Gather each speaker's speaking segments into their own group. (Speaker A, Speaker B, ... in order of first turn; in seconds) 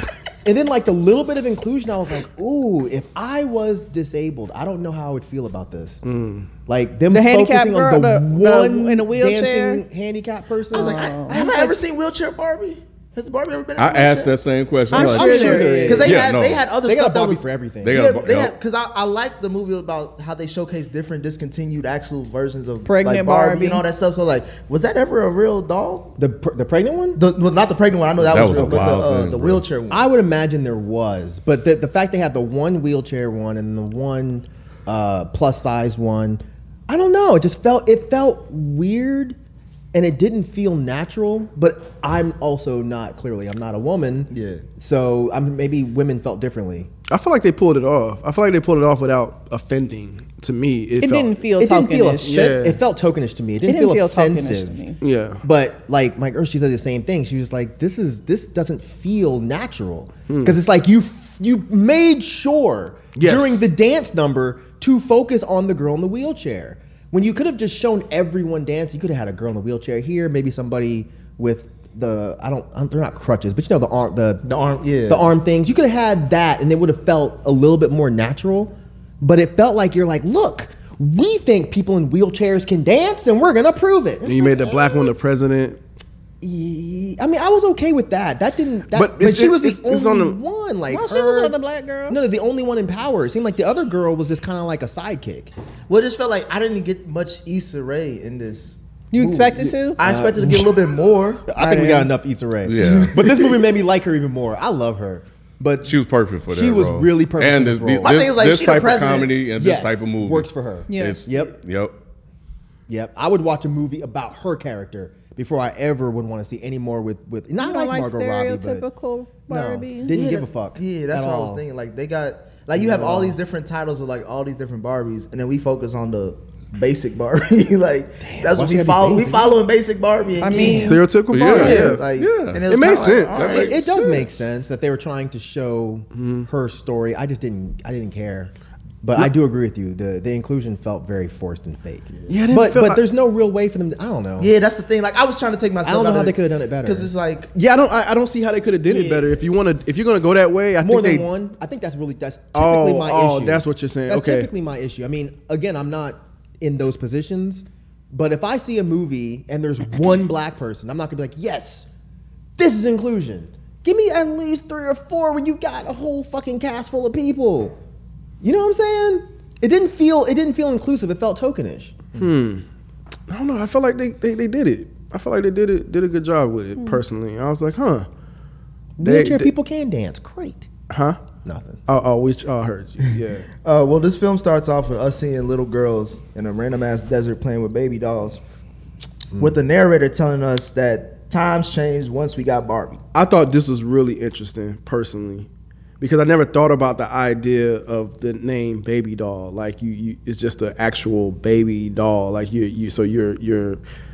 Speaker A: 0.5-6.0, 6.7-11.7, 14.9-18.2, 26.2-27.2, 28.2-29.0, 29.9-39.4, 39.9-46.9, 51.6-54.8, 55.4-74.5, 75.1-85.2, 86.4-91.6, 92.1-95.5, 100.0-100.8, 101.5-106.0, 106.5-108.3, 109.6-111.6, 112.9-118.9, 119.5-121.6, 122.7-123.4, 128.2-129.6, 133.4-144.5, 145.8-147.1, 150.8-161.9, 162.6-167.8, 168.4-172.0, 179.0-180.7, 181.4-181.8, 189.3-189.6
Speaker B: 6.0-6.5, 47.1-51.4, 52.2-52.8, 55.0-55.4, 60.3-60.6, 63.2-63.6, 84.2-85.8, 88.9-90.4, 130.5-132.0, 132.7-133.7, 136.2-136.5, 142.3-143.1, 147.5-151.3, 152.5-154.5, 172.2-172.6, 173.3-178.1, 179.0-179.5, 180.9-181.2, 181.9-183.5, 193.1-195.5, 196.0-203.8
Speaker C: 7.1-9.8, 10.7-11.7, 14.9-16.1, 22.9-23.8, 51.0-52.5, 53.7-55.0, 90.9-92.2, 99.1-100.0, 101.6-102.1, 110.9-111.3, 117.6-120.1, 130.4-131.0
Speaker D: 10.7-14.4, 15.1-26.1, 27.2-30.1, 44.3-44.6, 74.4-75.3, 95.9-101.5, 103.1-103.5, 108.0-109.5, 120.1-134.3, 144.4-147.5, 148.9-149.2, 183.6-188.4, 189.4-193.0
Speaker E: 13.8-16.7, 17.8-18.5, 28.3-29.6, 102.7-103.2, 105.8-112.0, 131.3-133.8